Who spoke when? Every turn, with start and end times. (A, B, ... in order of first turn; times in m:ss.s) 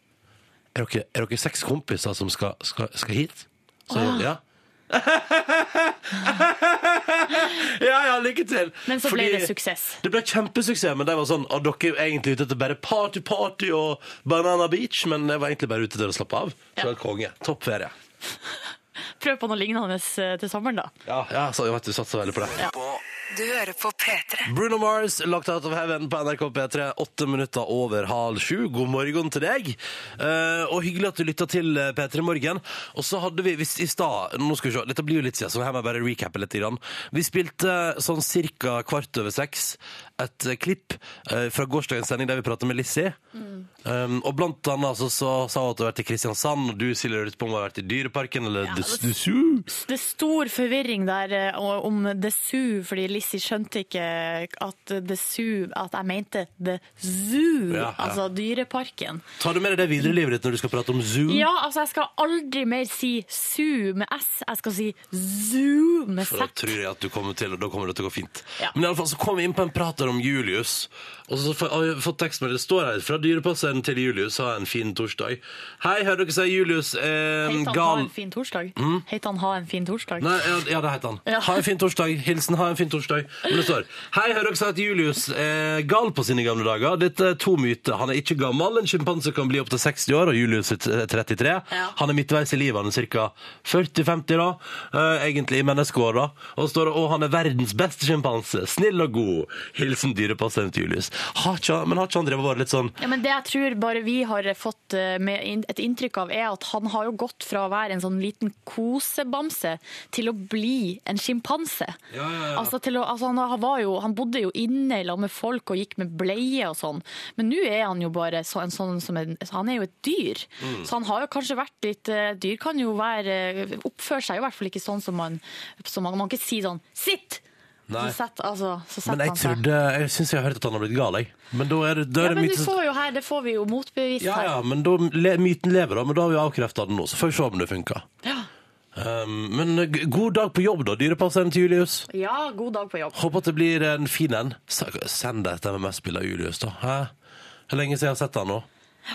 0:00.7-0:18.0 A
0:03.9-0:04.3 B
0:08.9-0:10.0 B
0:19.2-0:20.9 B
0:21.1-0:22.6 A
0:22.6-0:24.5 C
0:24.5-0:43.2 A
0:43.4-0:43.6 B
0:43.8-0:49.7 A
0:48.7-0:49.1 B
0:49.7-0:59.2 B
0:57.7-0:58.2 A
0:59.4-1:01.5 A
1:01.3-1:06.7 B
1:06.2-1:18.1 A
1:17.4-1:20.4 B
1:18.8-1:19.0 A
1:20.2-1:43.0 A
1:21.3-1:21.6 B
1:43.0-1:52.0 B
1:52.1-1:52.7 A
1:52.5-2:07.4 B
2:00.6-2:00.9 A
2:07.9-2:08.2 A
2:08.0-2:09.6 B
2:09.0-2:12.7 A
2:12.2-2:14.6 B
2:14.2-2:18.1 A
2:18.2-2:18.5 B
2:19.0-2:22.1 A
2:22.1-2:23.3 B
2:23.1-2:27.1 A
2:27.7-2:28.7 A